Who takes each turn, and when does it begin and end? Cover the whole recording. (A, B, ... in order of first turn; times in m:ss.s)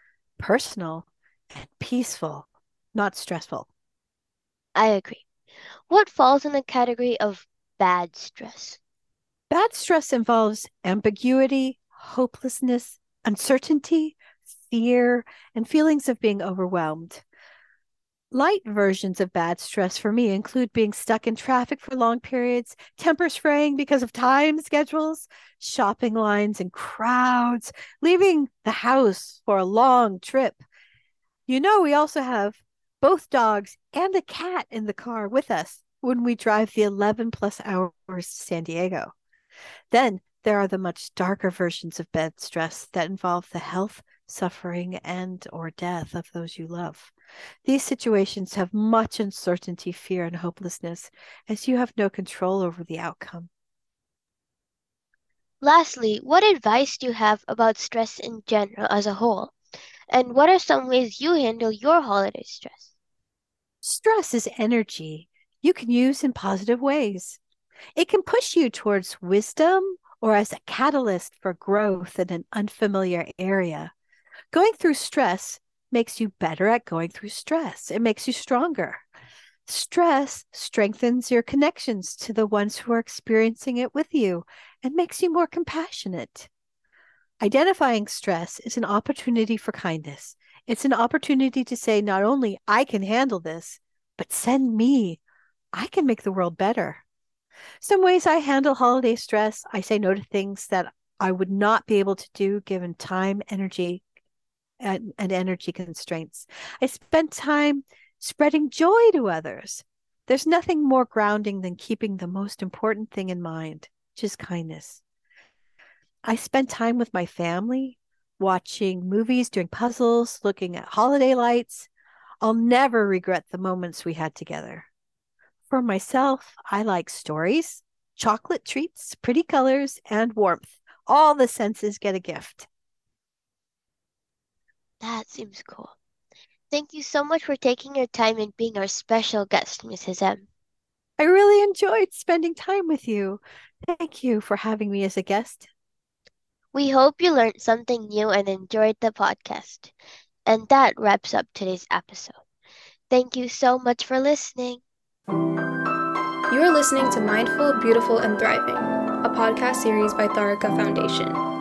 0:00.4-0:03.7 A
0:04.8-0:05.3 B
0:05.9-0:08.8 B
0:09.5-0:17.2 A
0:18.3-0:30.6 A
0:31.5-0:39.1 A
0:39.9-0:47.1 A
0:47.6-0:53.5 A
0:55.6-0:59.6 B
1:00.1-1:02.9 B
1:03.8-1:07.4 A
1:08.0-1:13.9 A
1:14.5-1:19.0 A
1:19.7-1:26.5 A
1:27.4-1:35.2 A
1:35.7-1:37.0 A
1:37.8-1:44.0 A
1:44.8-1:55.0 A
1:56.2-2:01.9 A
2:02.4-2:04.9 A
2:05.7-2:12.7 A
2:15.0-2:16.0 B
2:16.7-2:20.4 B
2:21.2-2:25.7 A
2:26.7-2:29.9 B
2:30.5-2:32.4 B
2:33.1-2:34.8 B
2:36.5-2:41.4 C